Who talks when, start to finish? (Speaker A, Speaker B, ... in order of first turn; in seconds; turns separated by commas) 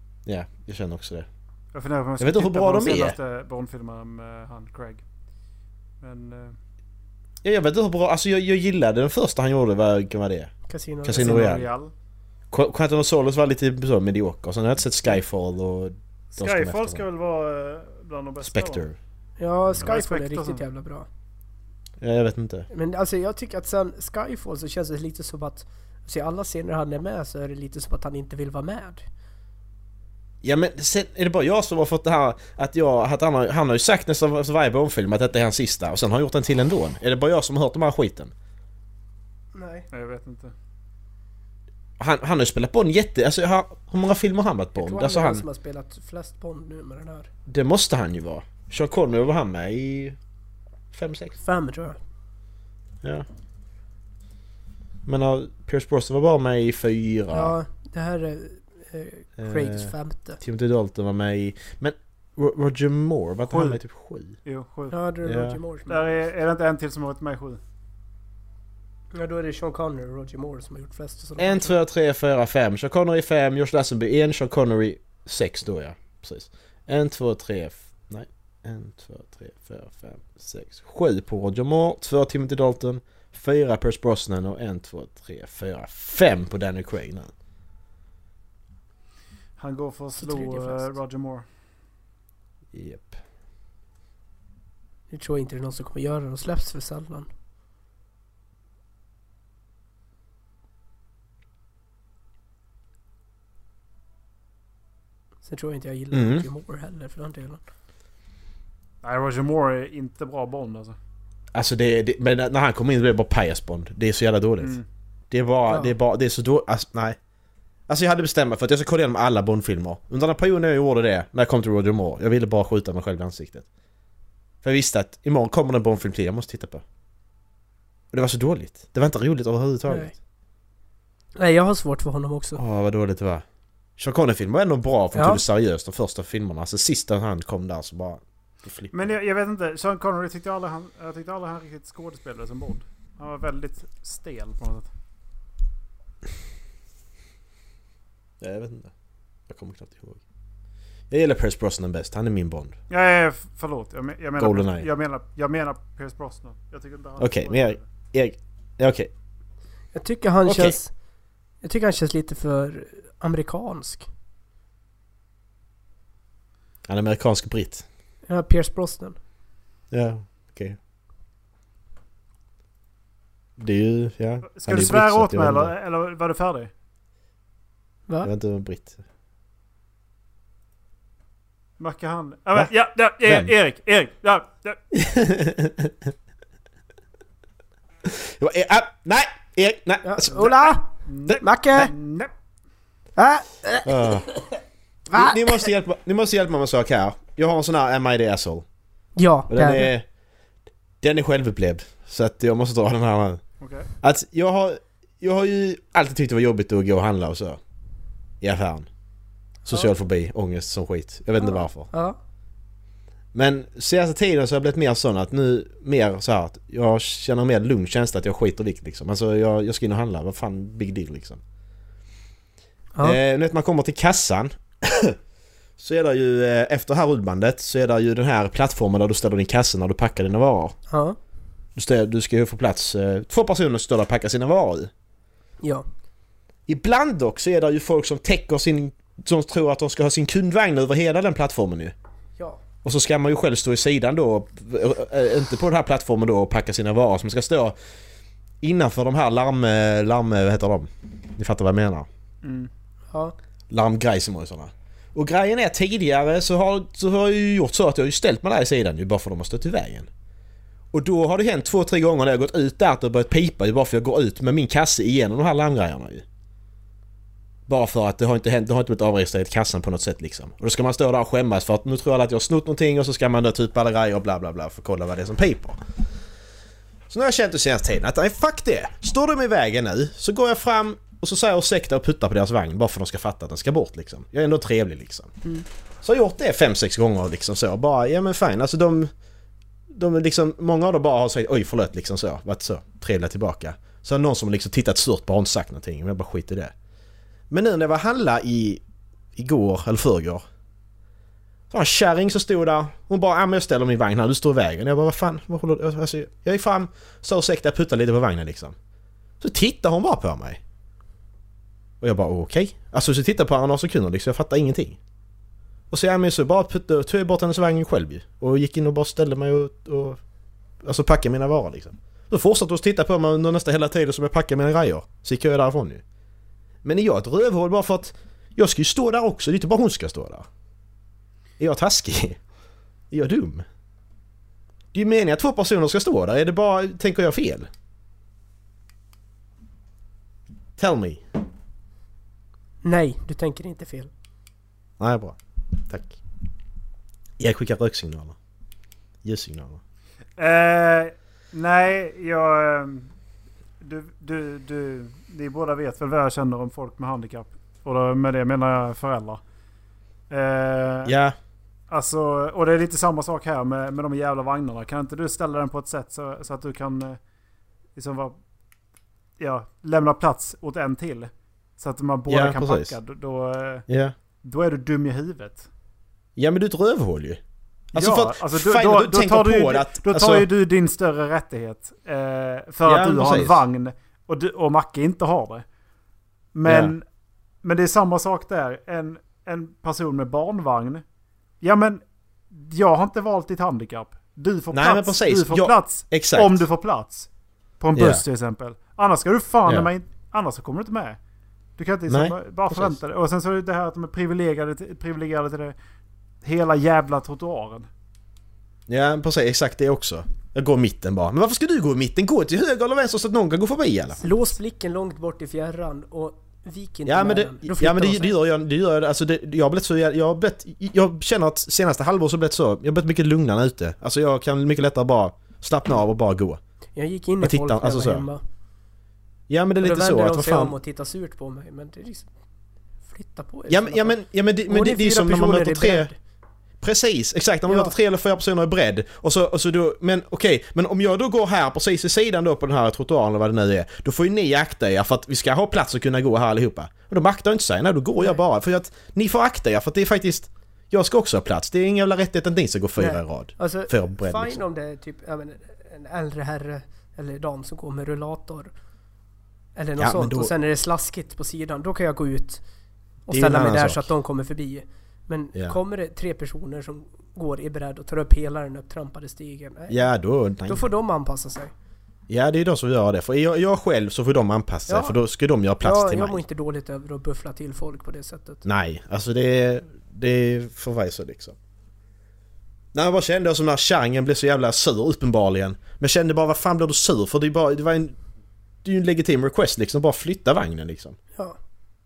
Speaker A: 0.2-1.3, Speaker B: 1.7-5.0, Speaker A: 2.2-3.2, Speaker B: 6.0-6.6, Speaker A: 7.4-11.7, Speaker C: 10.7-11.5, Speaker B: 11.1-11.9, Speaker A: 12.5-17.0, Speaker B: 16.3-18.9, Speaker A: 18.4-18.9, Speaker C: 19.4-21.1, Speaker B: 19.7-20.6, Speaker A: 22.0-22.7, Speaker C: 22.7-29.0, Speaker A: 30.4-38.3, Speaker C: 39.5-39.9, Speaker B: 39.9-40.5, Speaker A: 42.0-45.4, Speaker C: 44.8-47.3, Speaker A: 47.5-50.2, Speaker A: 50.9-51.4, Speaker C: 51.4-52.0, Speaker A: 55.0-57.5, Speaker C: 57.3-60.4, Speaker A: 59.4-64.4, Speaker B: 63.5-63.8, Speaker B: 64.4-65.0, Speaker C: 64.9-66.0, Speaker A: 65.2-65.6, Speaker B: 65.9-67.6, Speaker C: 69.1-71.8, Speaker A: 71.4-87.3, Speaker B: 89.6-91.5, Speaker C: 90.2-90.9, Speaker A: 92.7-93.2, Speaker C: 95.1-97.3, Speaker C: 105.4-107.6, Speaker A: 106.1-106.5, Speaker B: 109.0-111.0, Speaker A: 111.5-114.8, Speaker B: 114.6-114.8, Speaker A: 115.3-117.2, Speaker A: 117.9-123.7, Speaker A: 124.6-126.8, Speaker A: 128.1-130.1, Speaker C: 131.3-132.6, Speaker A: 132.6-133.4, Speaker A: 134.0-139.1, Speaker C: 135.1-135.4, Speaker B: 138.9-144.9, Speaker A: 148.4-148.9, Speaker A: 149.5-150.2, Speaker A: 151.1-152.7, Speaker B: 152.9-157.8, Speaker A: 154.4-154.9, Speaker A: 157.2-159.1, Speaker C: 159.9-160.9, Speaker A: 160.4-160.8, Speaker C: 161.6-164.1, Speaker A: 166.9-167.8, Speaker C: 168.3-169.2, Speaker A: 169.9-170.8, Speaker A: 173.6-175.7, Speaker B: 174.4-176.7, Speaker A: 178.2-179.0, Speaker B: 181.8-184.8, Speaker A: 183.2-183.5, Speaker A: 184.9-186.1, Speaker A: 188.1-190.7, Speaker C: 190.0-190.9, Speaker B: 191.1-192.3, Speaker A: 191.3-191.9, Speaker C: 191.4-191.9, Speaker C: 193.2-194.2, Speaker A: 193.8-194.3, Speaker C: 195.1-195.7, Speaker A: 195.1-198.6, Speaker C: 199.2-199.9, Speaker A: 199.5-200.1, Speaker A: 201.0-203.4, Speaker B: 203.6-203.9, Speaker A: 204.0-207.6, Speaker A: 208.4-208.9, Speaker A: 209.7-211.9, Speaker C: 211.4-212.2, Speaker A: 213.3-221.4, Speaker A: 223.0-225.2, Speaker A: 225.8-230.8, Speaker C: 230.9-231.2, Speaker A: 231.8-234.9, Speaker A: 236.7-241.9, Speaker A: 242.8-247.8, Speaker A: 248.6-252.1, Speaker B: 252.4-252.7, Speaker C: 253.1-253.3, Speaker A: 253.7-260.1, Speaker A: 260.9-266.2, Speaker A: 267.7-275.8, Speaker A: 277.1-285.3, Speaker A: 286.0-289.1, Speaker A: 289.9-296.7, Speaker A: 297.5-298.8, Speaker A: 299.4-300.4, Speaker A: 301.7-308.8, Speaker A: 309.4-310.6, Speaker A: 312.0-315.0, Speaker A: 315.9-320.2, Speaker A: 320.8-326.0, Speaker A: 326.8-330.4, Speaker A: 331.6-332.4, Speaker A: 333.1-333.6, Speaker A: 334.9-337.7, Speaker A: 340.8-341.2, Speaker C: 342.8-344.1, Speaker A: 345.0-346.2, Speaker A: 347.4-348.4, Speaker A: 349.2-349.8, Speaker B: 350.4-353.1, Speaker B: 353.8-359.4, Speaker B: 360.3-361.1, Speaker A: 361.0-361.4, Speaker B: 361.9-367.2, Speaker B: 367.9-368.4, Speaker B: 369.4-373.9, Speaker A: 372.3-372.9, Speaker A: 373.9-374.1, Speaker B: 374.4-375.7, Speaker A: 376.4-377.4, Speaker B: 377.9-385.6, Speaker A: 377.9-380.5, Speaker A: 382.8-383.6, Speaker B: 386.5-387.0, Speaker A: 386.6-386.9, Speaker B: 387.6-391.0, Speaker B: 391.6-397.3, Speaker A: 394.7-396.6, Speaker B: 397.8-401.2, Speaker A: 397.9-398.2, Speaker B: 401.8-405.7, Speaker A: 402.1-403.0, Speaker B: 406.4-407.9, Speaker A: 408.9-414.2, Speaker C: 414.2-418.3, Speaker A: 417.1-426.6, Speaker C: 426.9-428.4, Speaker A: 427.4-428.3, Speaker A: 429.5-430.8, Speaker C: 429.8-432.3, Speaker C: 433.1-434.1, Speaker A: 433.7-436.1, Speaker C: 434.7-436.1, Speaker A: 436.8-454.6, Speaker C: 437.7-437.9, Speaker C: 453.0-458.7, Speaker C: 459.7-462.6, Speaker A: 460.0-460.5, Speaker C: 463.3-470.0, Speaker A: 463.3-464.1, Speaker A: 469.9-470.9, Speaker C: 470.6-471.7, Speaker A: 472.3-476.4, Speaker C: 474.9-475.1, Speaker C: 475.8-478.6, Speaker A: 478.6-481.6, Speaker A: 482.9-488.1, Speaker A: 488.8-491.2